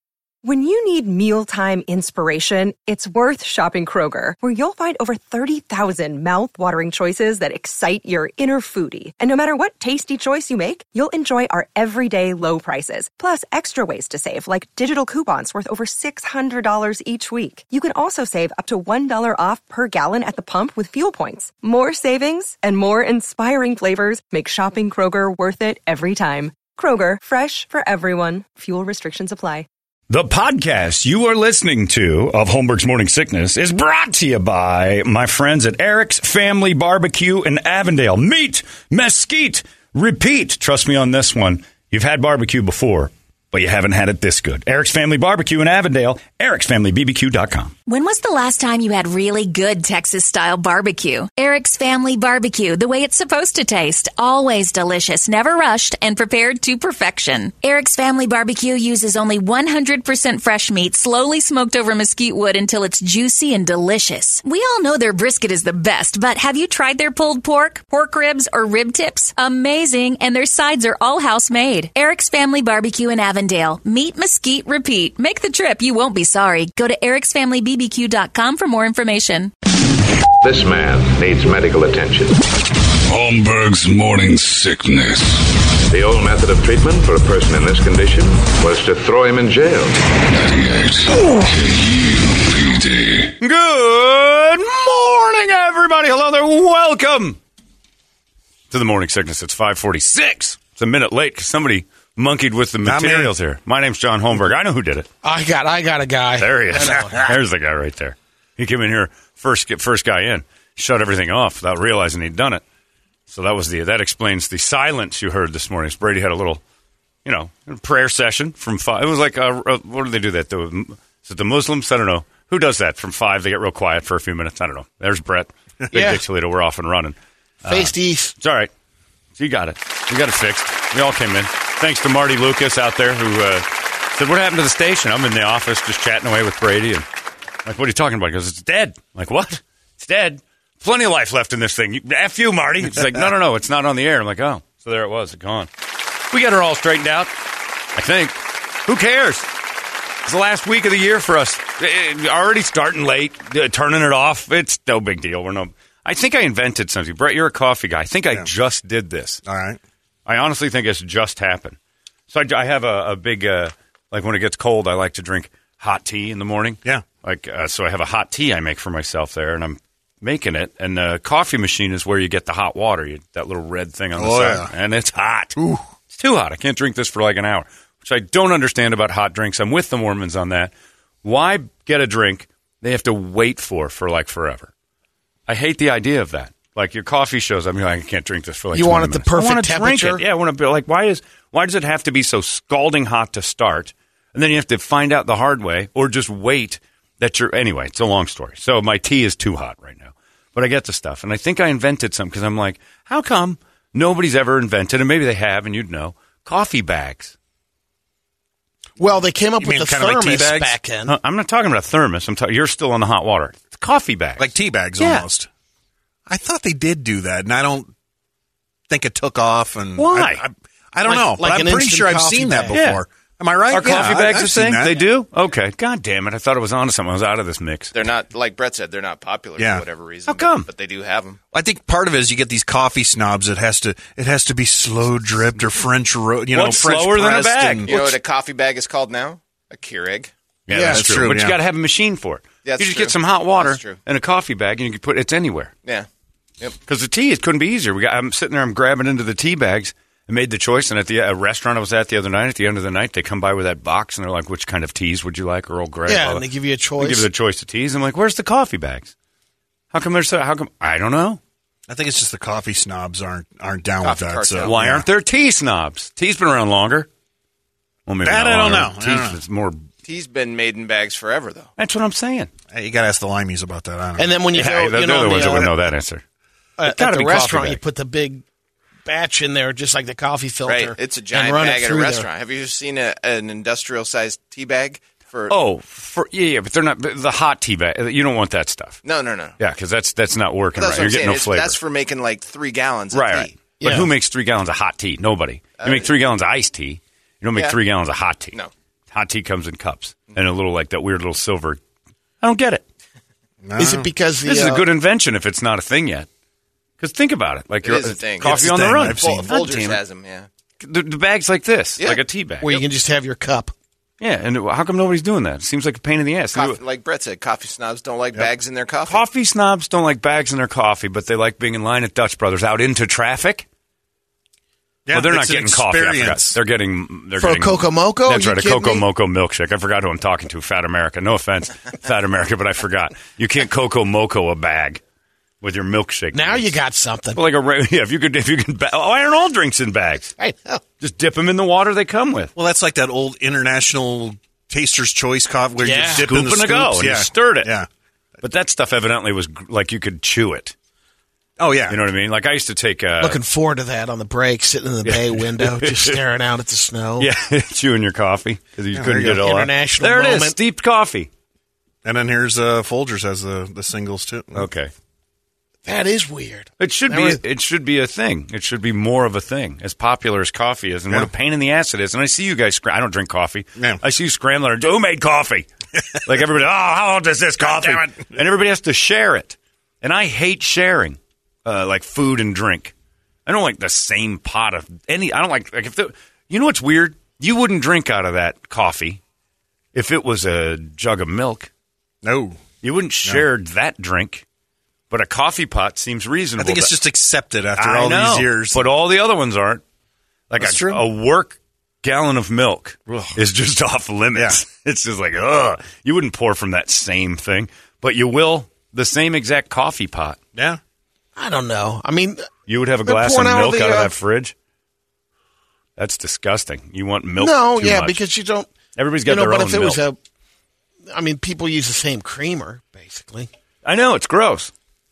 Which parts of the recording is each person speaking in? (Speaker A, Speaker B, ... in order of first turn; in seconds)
Speaker A: 0.4-29.7
Speaker B: 30.1-47.7, 93.4-97.4, 98.7-105.1, 106.4-112.6, 113.3-116.6, 117.2-128.7, 129.4-137.1, 137.7-145.7, 146.3-147.3, 147.9-149.5, 150.2-159.4, 160.3-161.8, 162.3-175.6, 176.1-180.7, 181.2-184.7, 185.5-207.3, 211.1-215.3, 220.0-220.4, 222.7-223.0, 223.7-227.9, 230.3-230.7, 236.5-237.9, 240.7-245.7, 246.9-256.4, 257.0-259.1, 259.9-261.4, 264.6-267.1, 268.1-269.8, 271.8-272.5, 274.5-276.2, 276.9-277.8, 285.5-289.0, 289.6-291.8, 293.1-298.6, 299.1-301.8, 302.4-302.8, 304.4-306.3, 307.0-310.0, 310.8-312.8, 314.2-316.8, 319.1-323.7, 325.1-335.0, 335.6-336.7, 337.4-340.3, 341.0-342.5, 346.1-347.7, 348.4-350.8, 351.9-353.4, 355.1-356.2, 357.2-361.3, 364.5-364.9, 366.8-375.7, 376.2-382.9, 383.5-389.2, 389.9-391.7, 392.8-394.4, 395.1-397.0, 397.8-399.8, 400.5-410.4, 412.7-414.5, 416.0-418.2, 419.0-420.0, 423.9-424.7
Speaker C: 47.9-79.5
Speaker D: 80.4-82.4, 85.9-90.1
Speaker E: 83.1-85.5, 90.3-93.3
Speaker F: 102.8-103.3, 159.4-159.8, 174.2-174.7, 175.6-175.8, 209.6-210.7, 214.4-215.5, 216.3-217.9, 218.9-225.0, 229.6-229.8, 231.5-238.2, 240.9-241.6, 261.9-265.1, 268.2-269.4, 272.7-274.3, 303.6-304.1, 308.4-309.9, 325.1-326.6, 342.6-347.9, 351.6-352.0, 358.9-359.4, 362.0-364.7, 392.2-392.6, 396.6-398.8, 400.6-401.0, 403.1-403.4, 404.3-404.6
Speaker G: 105.2-107.4, 125.9-126.2, 127.7-128.4, 188.7-190.2, 209.0-211.2, 221.1-222.8, 240.7-241.3, 256.1-257.3, 274.2-275.7, 276.8-278.4, 279.1-282.3, 293.8-294.1, 303.8-304.9, 312.6-313.7, 327.4-329.0, 336.3-337.4, 340.4-340.8, 345.8-346.3, 353.2-357.3, 359.4-360.6, 365.9-367.4, 377.8-378.1, 411.4-412.5, 413.1-414.1, 417.4-418.7, 419.3-420.2, 421.1-423.5
Speaker H: 227.9-231.4, 237.9-240.3, 242.6-244.0, 264.0-264.8, 270.1-271.7, 280.7-285.6, 289.0-289.6, 290.8-293.6, 295.8-296.1, 307.8-310.5, 316.5-319.2